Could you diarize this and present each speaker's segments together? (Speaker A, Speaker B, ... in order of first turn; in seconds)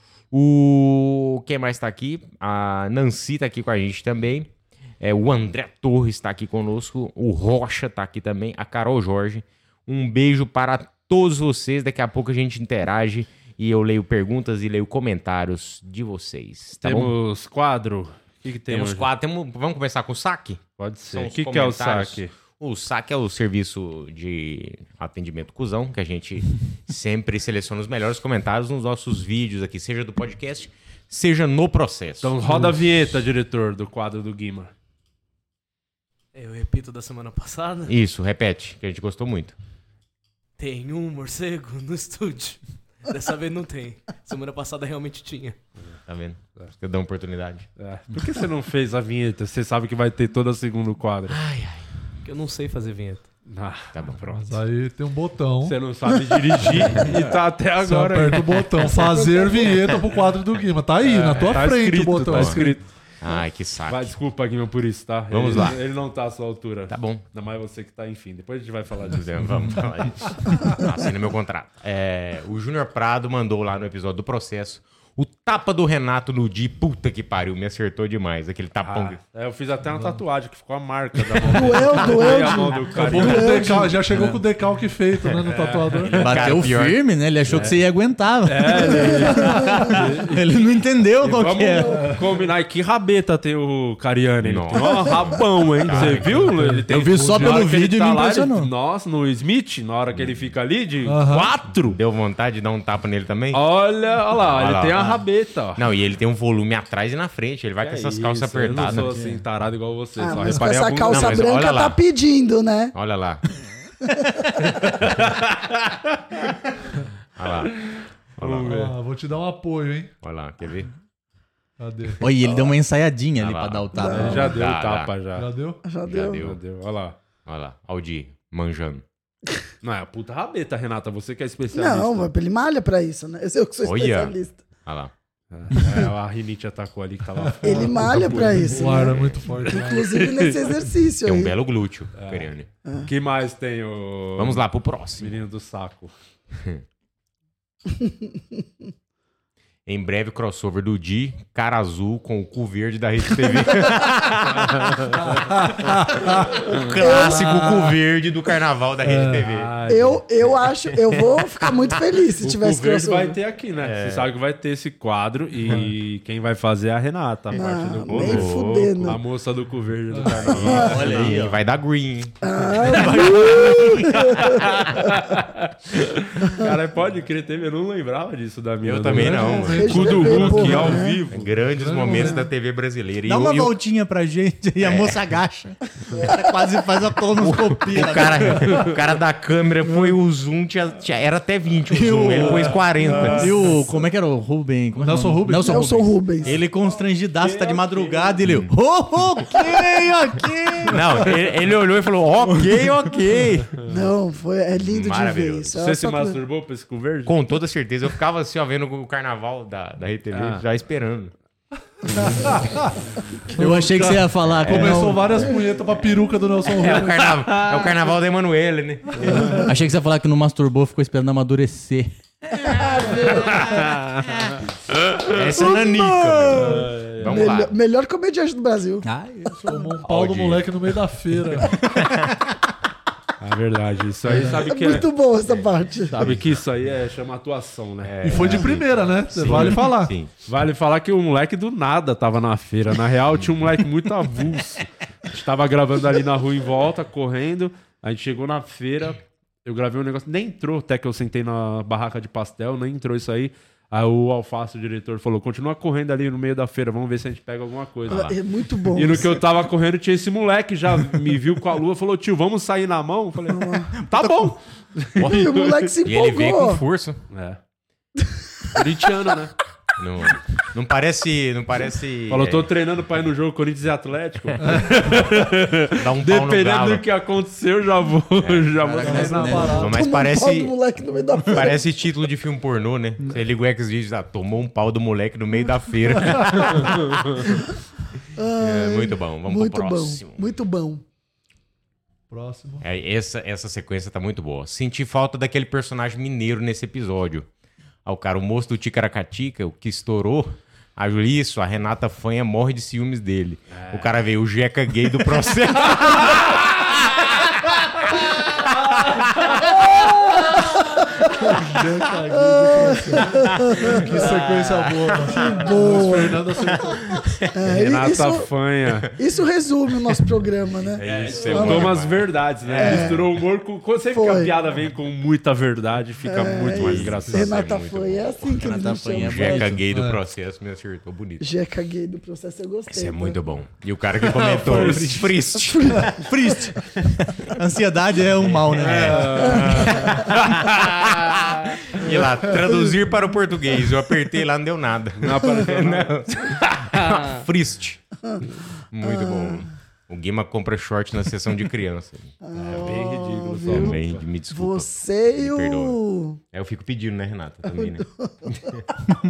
Speaker A: 0.3-17.1, 18.7-32.6, 37.9-39.5, 46.1-47.7, 51.3-51.9, 62.3-62.6, 63.2-64.2, 65.3-65.8, 66.9-67.2, 69.1-79.2, 86.1-87.7, 94.4-96.6, 100.1-100.4, 101.9-103.6, 104.4-105.2, 105.8-109.1, 111.0-112.0, 112.9-113.4, 117.4-117.8, 118.4-118.9, 120.2-120.9, 123.4-125.1, 126.1-126.6, 127.5-129.0, 133.8-134.3, 134.9-135.1, 141.2-142.7, 144.4-145.3, 149.9-159.7, 163.8-164.3, 168.1-169.1, 170.5-172.4, 178.8-180.1, 181.3-183.8, 184.8-185.3, 187.4-193.6, 198.4-198.7, 200.9-203.7, 204.8-205.7, 207.3-211.3, 214.6-215.4, 216.8-219.6, 225.2-227.7, 230.0-230.7, 236.1-236.5, 238.0-240.3, 258.1-258.4, 265.2-267.2, 270.0-272.7, 275.9-277.1, 278.4-278.8, 279.6-280.8, 281.5-287.6, 288.6-290.5, 292.8-297.5, 298.1-310.1, 313.6-315.7, 316.9-317.3, 321.0-323.2, 326.7-331.4, 332.9-336.3, 338.9-339.2, 339.7-348.0, 348.9-352.9, 353.7-356.0, 356.5-358.8
Speaker B: 16.8-19.1, 20.8-22.3, 32.2-34.7, 47.8-51.4, 53.5-54.6, 55.6-58.7, 61.0-62.9, 63.9-69.8, 78.8-83.7, 85.5-86.4, 88.5-90.6, 91.2-102.0, 103.5-105.8, 107.8-111.5, 114.9-115.9, 118.4-118.9, 124.0-125.5, 126.4-127.2, 129.8-132.3, 135.5-140.7, 142.2-142.5, 143.1-144.6, 145.2-146.1, 154.6-155.2, 159.4-160.5, 162.4-171.4, 173.3-181.5, 197.4-198.4, 205.8-207.4, 210.3-210.6, 217.6-217.9, 223.7-224.2, 226.6-227.5, 233.4-235.1, 236.1-238.7, 239.5-239.8, 240.5-258.3, 258.9-265.9, 267.3-267.6, 268.8-269.5, 272.3-279.7, 303.7-304.2, 317.7-319.1, 321.0-327.7, 334.5-335.2, 338.8-340.3, 345.2-347.4, 352.6-354.2
Speaker C: 36.4-37.9, 40.6-45.6, 52.2-53.3
Speaker D: 54.3-55.8, 57.8-62.8, 79.9-80.2, 82.9-86.3, 95.9-97.7, 101.0-101.5, 118.7-120.1, 121.8-122.2, 125.4-125.8, 137.5-140.2, 155.1-157.8, 159.0-159.5, 165.7-165.9, 170.1-170.5, 179.1-182.5, 195.0-195.8, 212.1-212.9, 213.6-217.5, 229.7-231.8, 234.3-234.6, 238.2-240.2, 274.6-275.0, 279.0-280.0, 292.3-292.9, 311.4-317.2, 329.9-330.2, 338.9-339.9
Speaker E: 59.0-59.8, 81.5-84.0, 88.9-89.7, 110.2-112.9, 114.1-114.5, 124.0-124.5, 125.8-126.4, 131.7-134.6, 137.6-141.5, 157.0-157.7, 159.9-163.4, 167.5-169.2, 170.7-170.9, 172.4-174.7, 179.6-181.2, 195.7-196.6, 203.9-206.4, 222.8-223.7, 227.3-229.1, 234.7-236.2, 258.1-259.4, 263.5-263.9, 265.2-266.8, 279.9-281.8, 288.4-291.0, 309.9-311.5, 312.4-314.1, 315.6-316.5, 317.5-318.5, 319.1-321.9, 322.8-323.2, 324.1-324.5, 326.3-329.7, 331.4-333.4, 335.6-336.5, 349.0-349.6, 352.4-354.0, 354.5-356.4, 357.7-358.5
Speaker F: 86.1-92.1, 96.9-98.7, 108.9-109.4, 122.2-124.5, 170.7-171.6, 172.8-174.2, 183.2-188.8, 191.9-201.3, 202.5-203.7, 213.6-215.4, 219.4-223.9, 225.6-226.8, 229.0-229.9, 264.0-264.5, 278.8-279.9, 321.2-321.5, 328.6-329.8, 334.5-335.3, 336.2-336.9, 337.5-339.7